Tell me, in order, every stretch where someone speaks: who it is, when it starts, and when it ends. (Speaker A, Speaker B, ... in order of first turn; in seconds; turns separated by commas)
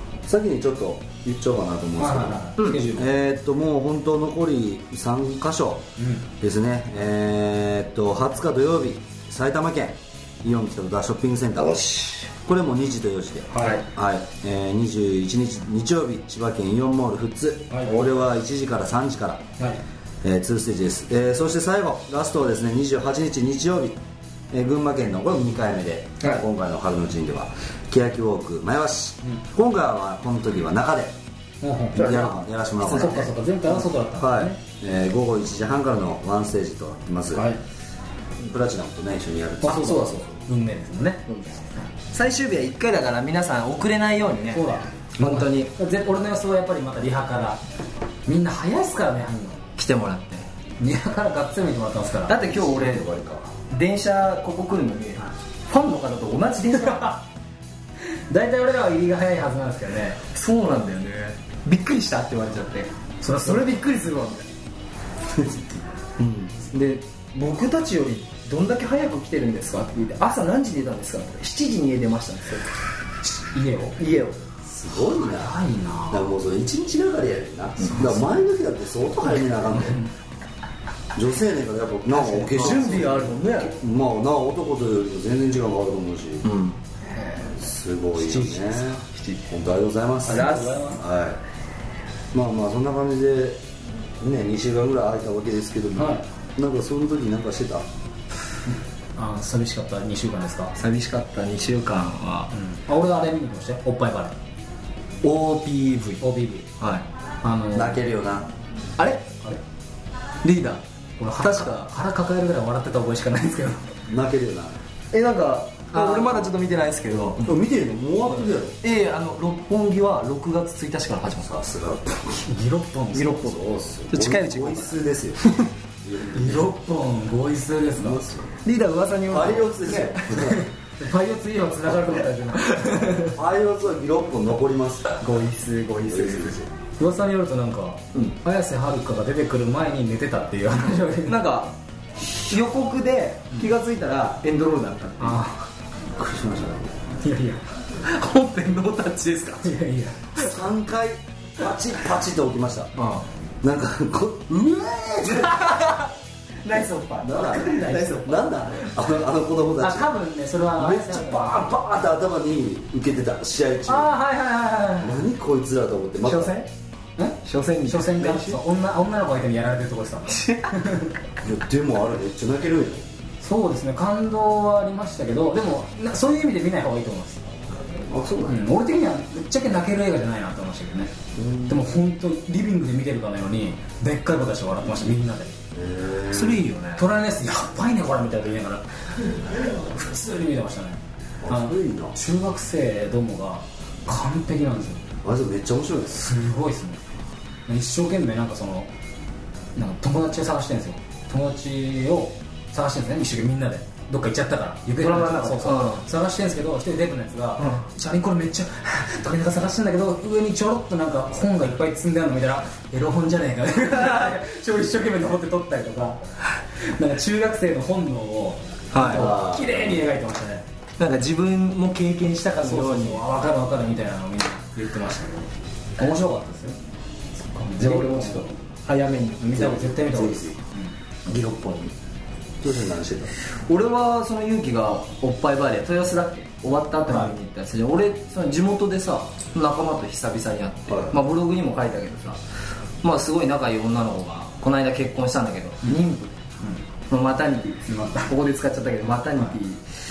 Speaker A: 0.2-5.9, Speaker B: 2.0-3.1, Speaker B: 6.0-6.3, Speaker A: 6.4-19.4, Speaker C: 11.6-12.2, Speaker B: 13.5-13.8, Speaker B: 17.7-18.1, Speaker A: 20.2-24.0, Speaker A: 24.5-31.2, Speaker B: 31.6-32.3, Speaker A: 31.9-33.3, Speaker C: 32.0-33.3, Speaker B: 32.8-34.6, Speaker A: 34.1-37.5, Speaker B: 37.3-37.6, Speaker A: 38.4-40.0, Speaker B: 39.6-41.2, Speaker C: 39.6-40.3, Speaker C: 42.1-45.7, Speaker B: 44.5-47.6, Speaker B: 48.2-49.6, Speaker C: 49.8-50.5, Speaker B: 50.8-52.4, Speaker C: 52.3-57.2, Speaker A: 52.4-53.5, Speaker B: 58.3-60.2, Speaker C: 60.3-64.5, Speaker B: 63.2-63.7, Speaker A: 66.2-66.5, Speaker C: 66.7-72.7, Speaker B: 73.2-74.0, Speaker C: 74.0-74.4, Speaker A: 74.6-75.6, Speaker B: 75.2-76.3, Speaker A: 76.1-80.0, Speaker C: 77.8-78.1, Speaker B: 77.9-78.2, Speaker A: 81.1-86.5, Speaker B: 82.1-83.4, Speaker C: 82.5-83.7, Speaker C: 86.4-86.8, Speaker B: 87.2-87.4, Speaker A: 87.4-91.4, Speaker B: 88.2-89.0, Speaker C: 89.1-89.4, Speaker C: 90.2-90.9, Speaker B: 90.3-91.0, Speaker A: 92.3-93.6, Speaker A: 94.2-97.9, Speaker B: 96.0-96.2, Speaker B: 99.2-100.7, Speaker C: 100.8-102.5, Speaker B: 102.5-104.4, Speaker C: 105.2-106.2, Speaker B: 106.2-106.7, Speaker C: 106.8-107.0, Speaker B: 107.4-108.0, Speaker A: 107.7-108.5, Speaker C: 109.0-109.3, Speaker C: 110.4-110.8, Speaker B: 111.2-113.9, Speaker C: 111.4-111.9, Speaker A: 114.1-114.8, Speaker C: 115.1-117.5, Speaker B: 115.9-116.4, Speaker A: 117.4-118.8, Speaker C: 118.8-121.5, Speaker A: 121.4-122.5, Speaker B: 122.4-123.4, Speaker C: 123.1-123.6, Speaker A: 123.4-125.5, Speaker C: 124.1-125.7, Speaker A: 126.0-126.7, Speaker B: 126.3-128.2, Speaker A: 128.0-128.6, Speaker C: 128.6-130.5, Speaker A: 129.3-130.6, Speaker B: 130.4-133.3, Speaker C: 132.2-133.3, Speaker A: 133.3-135.2, Speaker C: 135.2-136.6, Speaker A: 136.1-136.7, Speaker B: 137.0-141.4, Speaker C: 141.3-141.7, Speaker C: 142.2-145.4, Speaker B: 145.2-145.7, Speaker A: 146.2-146.9, Speaker B: 147.2-147.6, Speaker C: 148.0-149.8, Speaker B: 149.6-150.5, Speaker A: 150.3-152.9, Speaker C: 152.9-153.2, Speaker A: 153.6-155.9, Speaker C: 155.3-156.1, Speaker C: 156.6-158.8, Speaker A: 157.2-160.1, Speaker B: 157.4-158.2, Speaker B: 159.8-161.6, Speaker A: 160.7-164.1, Speaker B: 163.9-165.2, Speaker A: 165.0-166.5, Speaker C: 166.2-166.7, Speaker B: 167.2-171.1, Speaker C: 167.4-168.6, Speaker C: 170.3-170.7, Speaker A: 171.4-173.0, Speaker B: 173.4-177.4, Speaker A: 178.1-178.6, Speaker B: 178.5-181.1, Speaker A: 181.3-181.8, Speaker B: 181.7-185.6, Speaker A: 185.7-186.6, Speaker C: 186.3-187.0, Speaker B: 187.0-195.0, Speaker A: 191.4-192.2, Speaker A: 195.2-196.2, Speaker B: 196.1-197.0, Speaker B: 197.7-198.9, Speaker B: 199.8-216.2, Speaker C: 205.0-206.0, Speaker B: 216.7-220.6, Speaker C: 218.9-219.3, Speaker A: 219.0-219.9, Speaker C: 221.0-223.3, Speaker B: 222.6-226.8, Speaker C: 227.5-229.7, Speaker B: 227.6-228.5, Speaker B: 229.4-230.9, Speaker A: 229.5-230.6, Speaker C: 231.2-231.9, Speaker A: 232.6-233.3, Speaker C: 233.6-242.4, Speaker A: 240.9-241.2, Speaker C: 243.0-246.4, Speaker C: 247.1-249.8, Speaker B: 247.9-248.3